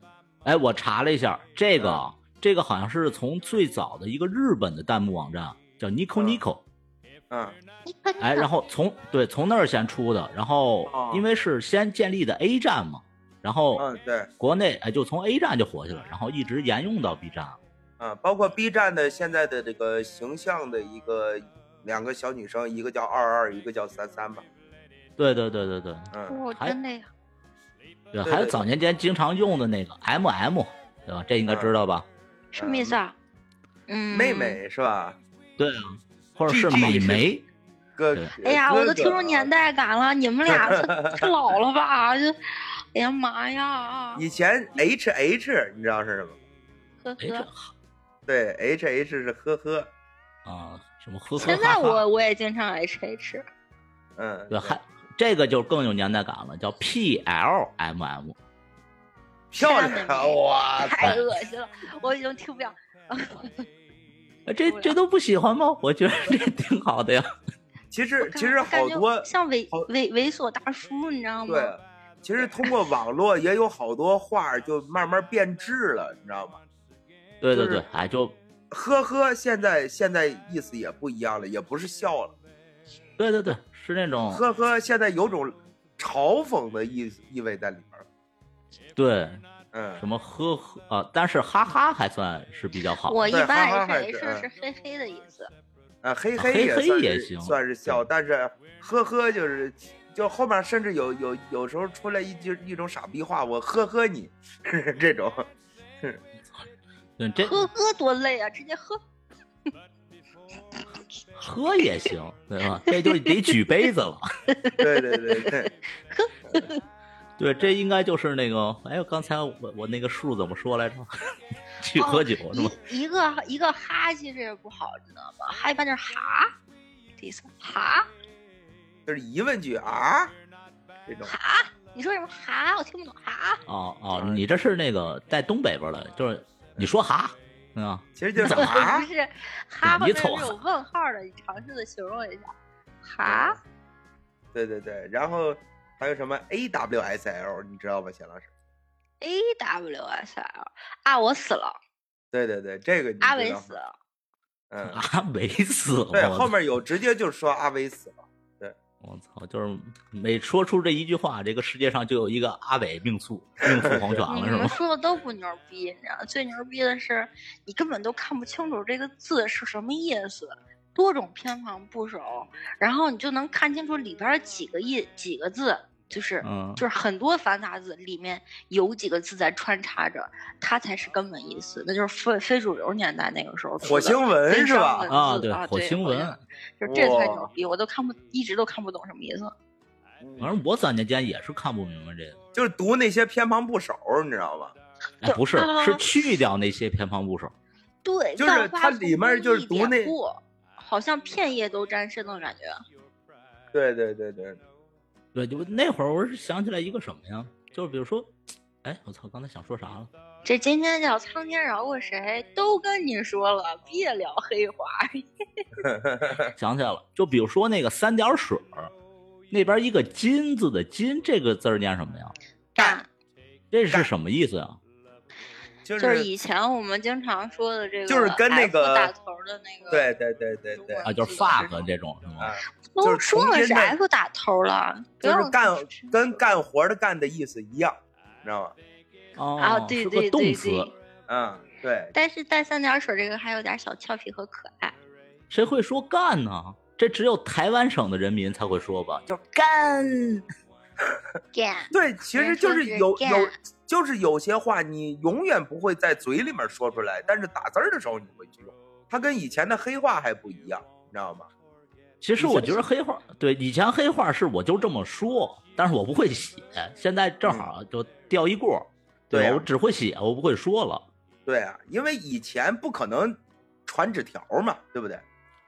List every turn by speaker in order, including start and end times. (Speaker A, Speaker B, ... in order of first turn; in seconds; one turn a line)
Speaker A: 0.4-6.6
Speaker B: 6.2-6.4
Speaker B: 7.3-7.6
Speaker C: 7.8-8.5
Speaker A: 8.2-13.8
Speaker B: 10.9-11.2
Speaker B: 13.8-14.3
Speaker A: 14.4-17.6
Speaker B: 18.0-24.4
Speaker A: 25.2-26.8
Speaker B: 26.1-26.4
Speaker C: 26.3-27.1
Speaker A: 28.1-32.0
Speaker B: 28.2-28.6
Speaker B: 31.4-31.7
Speaker C: 32.5-33.1
Speaker B: 32.5-33.0
Speaker C: 33.9-34.6
Speaker B: 34.1-35.2
Speaker A: 35.6-37.4
Speaker B: 36.5-37.2
Speaker B: 38.0-39.5
Speaker C: 38.4-42.4
Speaker B: 40.5-41.3
Speaker C: 42.9-44.2
Speaker B: 44.1-46.4
Speaker C: 47.0-47.5
Speaker A: 47.2-47.7
Speaker B: 48.2-49.9
Speaker A: 50.5-52.0
Speaker C: 51.4-53.4
Speaker B: 54.2-54.8
Speaker A: 54.5-58.4
Speaker B: 59.5-61.1
Speaker C: 59.5-63.7
Speaker A: 64.5-67.2
Speaker C: 64.6-65.0
Speaker B: 67.9-69.9
Speaker C: 68.2-71.7
Speaker B: 71.5-76.6
Speaker C: 72.4-72.7
Speaker A: 77.4-78.3
Speaker B: 77.5-77.8
Speaker B: 78.7-82.3
Speaker A: 83.2-84.4
Speaker B: 84.3-88.0
Speaker A: 89.0-89.4
Speaker B: 89.7-90.0
Speaker A: 90.0-93.2
Speaker C: 93.0-95.5
Speaker B: 93.3-94.5
Speaker B: 96.0-105.5
Speaker A: 96.4-98.0
Speaker A: 107.2-107.6
Speaker C: 107.4-109.0
Speaker A: 111.4-114.3
Speaker C: 112.9-113.3
Speaker C: 114.5-116.8
Speaker B: 114.8-115.7
Speaker A: 117.4-121.1
Speaker A: 121.8-122.8
Speaker C: 122.0-126.5
Speaker C: 127.2-128.1
Speaker B: 129.1-130.3
Speaker B: 131.1-131.3
Speaker C: 131.2-133.6
Speaker A: 133.7-138.8
Speaker B: 134.1-134.4
Speaker B: 138.2-139.1
Speaker C: 138.4-142.5
Speaker A: 139.8-140.6
Speaker C: 143.0-143.6
Speaker B: 143.2-143.6
Speaker B: 144.5-148.5
Speaker C: 149.2-151.8
Speaker B: 152.3-153.7
Speaker C: 153.2-153.9
Speaker B: 154.7-155.0
Speaker A: 154.8-156.5
Speaker B: 156.1-158.8
Speaker A: 159.0-164.8
Speaker B: 163.7-164.3
Speaker C: 164.3-189.5
Speaker A: 176.4-176.8
Speaker B: 183.8-185.1
Speaker A: 185.1-186.4
Speaker B: 186.8-187.5
Speaker B: 190.2-190.5
Speaker A: 190.4-192.4
Speaker B: 192.5-194.7
Speaker A: 195.2-197.5
Speaker C: 195.2-196.1
Speaker C: 198.0-202.8
Speaker B: 198.4-200.1
Speaker B: 203.7-204.6
Speaker A: 205.3-208.3
Speaker A: 208.8-210.1
Speaker C: 210.4-215.2
Speaker B: 215.8-216.5
Speaker A: 216.6-218.9
Speaker A: 219.5-222.3
Speaker C: 222.8-223.1
Speaker B: 222.8-223.0
Speaker A: 223.7-224.8
Speaker B: 225.8-226.3
Speaker C: 226.0-230.1
Speaker B: 228.1-229.1
Speaker B: 229.9-231.0
Speaker C: 230.7-231.9
Speaker A: 231.0-232.5
Speaker B: 232.4-234.0
Speaker C: 232.9-236.3
Speaker B: 235.2-238.8
Speaker A: 239.4-240.9
Speaker C: 239.6-240.9
Speaker B: 241.3-242.1
Speaker C: 242.1-244.9
Speaker A: 245.5-250.4
Speaker C: 251.5-253.5
Speaker B: 251.9-261.5
Speaker A: 262.2-271.1
Speaker B: 262.4-262.8
Speaker B: 269.3-269.6
Speaker B: 271.4-275.2